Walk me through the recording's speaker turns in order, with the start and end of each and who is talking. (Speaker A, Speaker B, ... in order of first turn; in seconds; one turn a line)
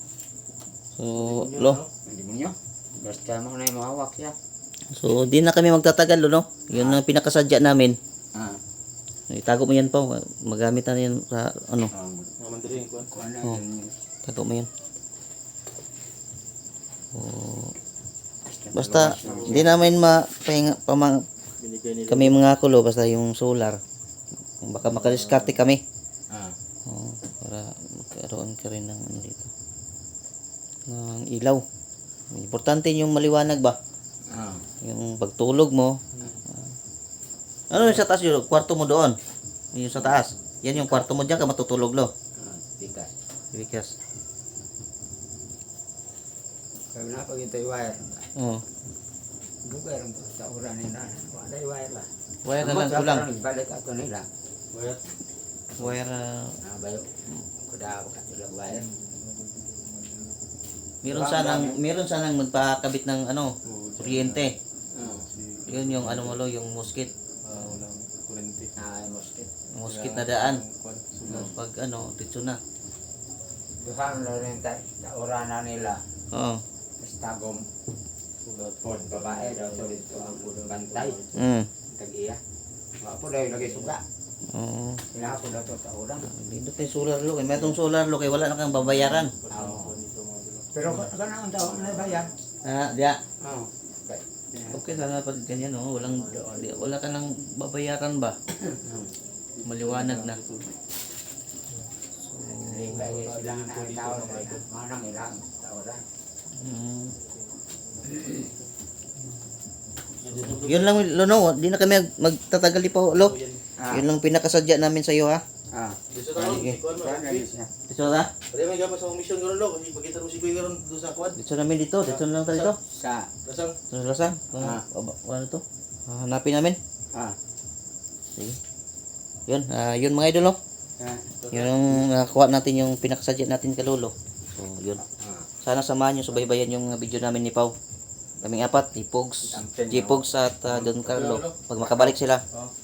Speaker A: 0.9-1.8
Speaker B: 1.1-1.9
Speaker C: 2.0-4.3
Speaker A: 4.9-8.0
Speaker C: 6.7-7.0
Speaker C: 8.3-8.6
Speaker A: 9.3-11.9
Speaker C: 11.9-12.3
Speaker B: 12.4-13.1
Speaker C: 13.0-13.9
Speaker A: 14.2-14.7
Speaker A: 17.1-17.7
Speaker C: 18.5-19.8
Speaker A: 18.7-21.2
Speaker B: 18.9-19.9
Speaker B: 21.6-22.4
Speaker A: 22.1-23.8
Speaker A: 24.6-25.8
Speaker B: 24.9-25.6
Speaker C: 26.3-26.6
Speaker A: 26.9-29.5
Speaker A: 30.9-31.6
Speaker A: 32.3-33.8
Speaker C: 34.3-34.6
Speaker A: 34.8-36.6
Speaker A: 37.7-39.1
Speaker A: 39.7-42.1
Speaker C: 40.7-41.1
Speaker C: 42.4-43.1
Speaker A: 43.5-43.9
Speaker C: 46.9-48.3
Speaker A: 48.4-48.6
Speaker C: 49.6-54.3
Speaker A: 52.4-53.3
Speaker B: 54.7-55.0
Speaker A: 55.8-56.5
Speaker C: 56.6-57.1
Speaker C: 57.6-58.9
Speaker B: 58.7-60.3
Speaker A: 61.0-64.5
Speaker C: 61.0-61.8
Speaker B: 63.6-66.4
Speaker C: 64.9-65.2
Speaker A: 65.7-67.1
Speaker B: 67.4-68.8
Speaker C: 68.8-69.5
Speaker A: 69.7-70.6
Speaker B: 69.8-71.6
Speaker C: 71.3-71.5
Speaker A: 71.3-72.6
Speaker C: 73.8-76.0
Speaker A: 76.3-76.6
Speaker C: 77.0-77.7
Speaker B: 78.4-81.5
Speaker C: 78.8-81.2
Speaker A: 81.3-81.7
Speaker C: 81.9-82.4
Speaker C: 83.0-84.0
Speaker B: 83.6-83.9
Speaker A: 84.5-85.0
Speaker C: 85.1-86.3
Speaker A: 86.2-89.3
Speaker B: 88.4-90.7
Speaker C: 89.5-89.9
Speaker C: 90.7-92.3
Speaker B: 91.5-92.3
Speaker A: 92.6-93.2
Speaker C: 93.4-94.8
Speaker A: 94.7-98.4
Speaker B: 96.0-96.9
Speaker C: 98.7-99.1
Speaker B: 99.6-100.7
Speaker A: 99.6-100.4
Speaker A: 102.2-103.1
Speaker C: 102.6-106.0
Speaker B: 102.9-104.7
Speaker A: 106.6-107.1
Speaker B: 108.0-108.5
Speaker B: 110.2-110.9
Speaker A: 110.4-113.4
Speaker B: 113.1-113.6
Speaker C: 113.8-114.1
Speaker A: 113.9-115.4
Speaker C: 115.7-116.0
Speaker B: 116.1-117.5
Speaker A: 116.3-116.8
Speaker C: 116.8-117.7
Speaker A: 117.9-118.3
Speaker B: 118.5-121.3
Speaker A: 121.3-122.8
Speaker B: 122.0-122.7
Speaker C: 122.8-123.3
Speaker B: 123.4-123.8
Speaker A: 123.9-126.8
Speaker C: 124.6-124.8
Speaker A: 129.5-130.6
Speaker C: 131.0-131.3
Speaker B: 131.4-132.1
Speaker A: 131.5-135.0
Speaker C: 135.0-135.5
Speaker A: 135.6-137.7
Speaker A: 138.4-142.4
Speaker C: 139.4-140.3
Speaker B: 140.6-141.6
Speaker C: 141.8-142.1